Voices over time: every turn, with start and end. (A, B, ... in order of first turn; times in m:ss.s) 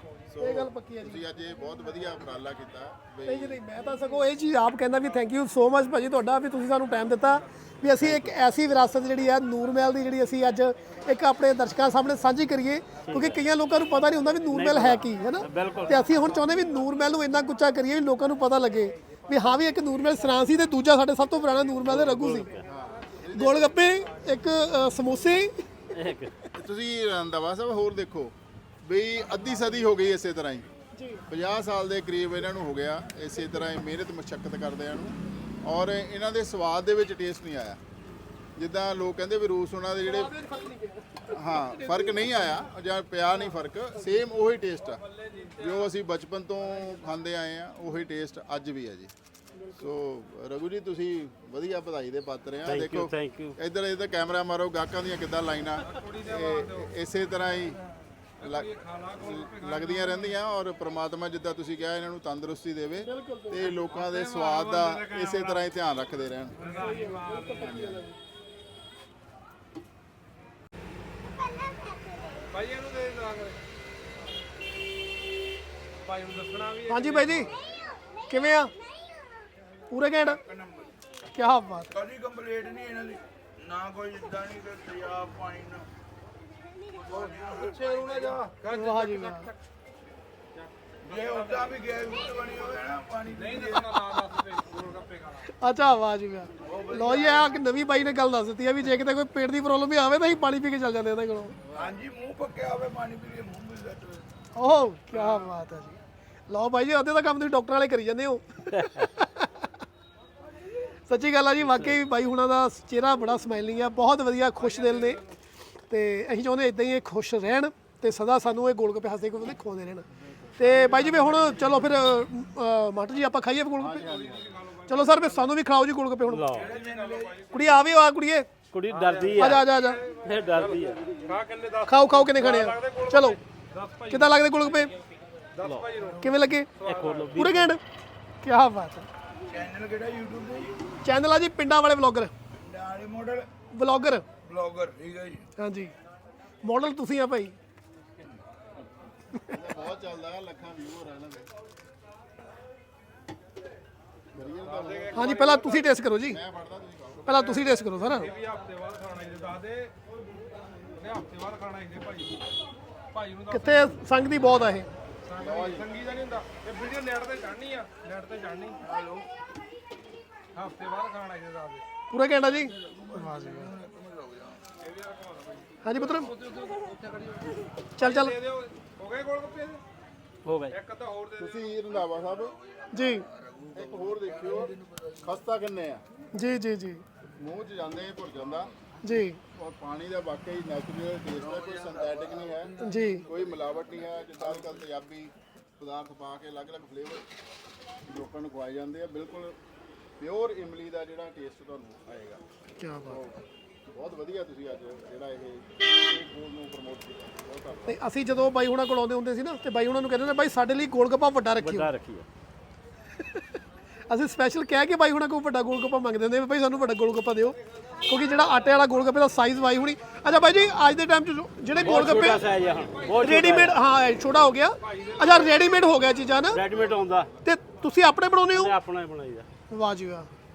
0:00.3-0:03.6 A
0:00.4-0:01.2 B
0:03.2-0:22.5 B
0:08.0-0:08.4 C
0:13.0-0:13.4 C
0:14.5-0:16.1 C
0:21.8-0:22.7 C
0:22.6-0:23.7 A
0:23.3-0:25.6 B
0:25.9-0:26.3 C
0:26.6-0:30.7 A
0:31.0-0:31.3 B
0:31.3-0:37.8 A
0:38.6-0:40.3 A
0:40.0-0:42.3 B
0:41.3-0:49.1 A
0:45.2-0:45.8 D
0:49.6-0:49.9 B
0:49.7-0:57.8 A
0:52.7-0:53.6 C
0:55.9-0:56.9 D
0:58.4-1:06.7 A
0:58.4-1:00.3 D
1:03.0-1:03.7 B
1:03.9-1:05.6 D
1:06.6-1:08.2 B
1:06.6-1:07.7 D
1:07.6-1:08.0 A
1:12.5-1:13.6 D
1:16.0-1:17.6 D
1:16.9-1:17.5 B
1:18.3-1:18.7 B
1:19.9-1:20.4 B
1:20.4-1:20.9 E
1:21.3-1:22.0 B
1:21.9-1:25.9 E
1:26.9-1:28.4 E
1:27.3-1:29.5 D
1:28.7-1:29.5 B
1:31.0-1:34.2 E
1:31.1-1:31.8 D
1:33.4-1:35.5 D
1:35.4-1:41.6 B
1:36.6-1:37.5 E
1:41.7-1:44.3 E
1:44.6-1:46.0 B
1:46.5-1:49.7 B
1:48.8-1:49.1 C
1:51.1-1:55.2 B
1:54.7-1:55.3 D
1:55.9-2:00.1 B
2:00.6-2:04.1 B
2:00.9-2:01.7 D
2:03.8-2:04.6 A
2:04.1-2:05.5 D
2:04.9-2:06.6 B
2:06.3-2:06.8 C
2:06.5-2:07.5 E
2:06.7-2:07.7 D
2:07.5-2:08.5 B
2:08.7-2:11.2 C
2:08.9-2:14.3 D
2:09.4-2:10.0 B
2:11.9-2:13.4 B
2:14.1-2:14.9 B
2:15.6-2:16.2 D
2:15.6-2:15.9 C
2:16.0-2:16.3 E
2:16.2-2:16.7 B
2:16.8-2:17.3 D
2:16.8-2:17.8 C
2:17.4-2:17.8 B
2:18.4-2:19.1 B
2:19.5-2:20.8 E
2:21.0-2:22.3 B
2:22.6-2:23.5 E
2:23.7-2:24.3 B
2:24.4-2:25.5 E
2:25.6-2:25.9 B
2:26.6-2:27.6 B
2:29.5-2:31.5 A
2:34.3-2:35.6 A
2:34.7-2:35.9 D
2:35.1-2:36.4 B
2:36.1-2:37.5 A
2:37.3-2:38.3 B
2:37.5-2:39.9 D
2:40.9-2:42.4 D
2:43.1-2:44.0 D
2:43.5-2:44.9 B
2:45.3-2:48.8 D
2:45.4-2:46.0 A
2:48.8-2:49.3 E
2:50.5-2:51.9 D
2:52.1-2:53.8 B
2:52.6-2:54.7 E
2:54.9-2:57.0 D
2:55.8-2:56.4 B
2:57.0-2:57.6 E
2:58.0-2:58.4 B
2:58.0-2:59.8 D
3:00.5-3:00.8 C
3:00.7-3:01.5 D
3:01.4-3:02.6 A
3:02.7-3:05.1 E
3:02.9-3:03.3 B
3:03.7-3:06.0 A
3:06.4-3:07.0 B
3:07.3-3:08.7 A
3:09.0-3:09.4 B
3:09.6-3:17.2 A
3:11.6-3:13.4 E
3:12.8-3:13.3 B
3:18.1-3:19.6 A
3:20.2-3:22.4 A
3:22.8-3:23.2 B
3:23.1-3:28.0 A
3:27.9-3:31.9 B
3:31.6-3:32.3 C
3:34.1-3:42.5 B
3:41.8-3:43.8 C
3:42.3-3:43.1 D
3:43.2-3:46.6 B
3:44.9-3:45.6 D
3:46.5-3:47.3 C
3:47.4-3:48.7 B
3:48.5-3:49.5 C
3:49.7-3:50.3 B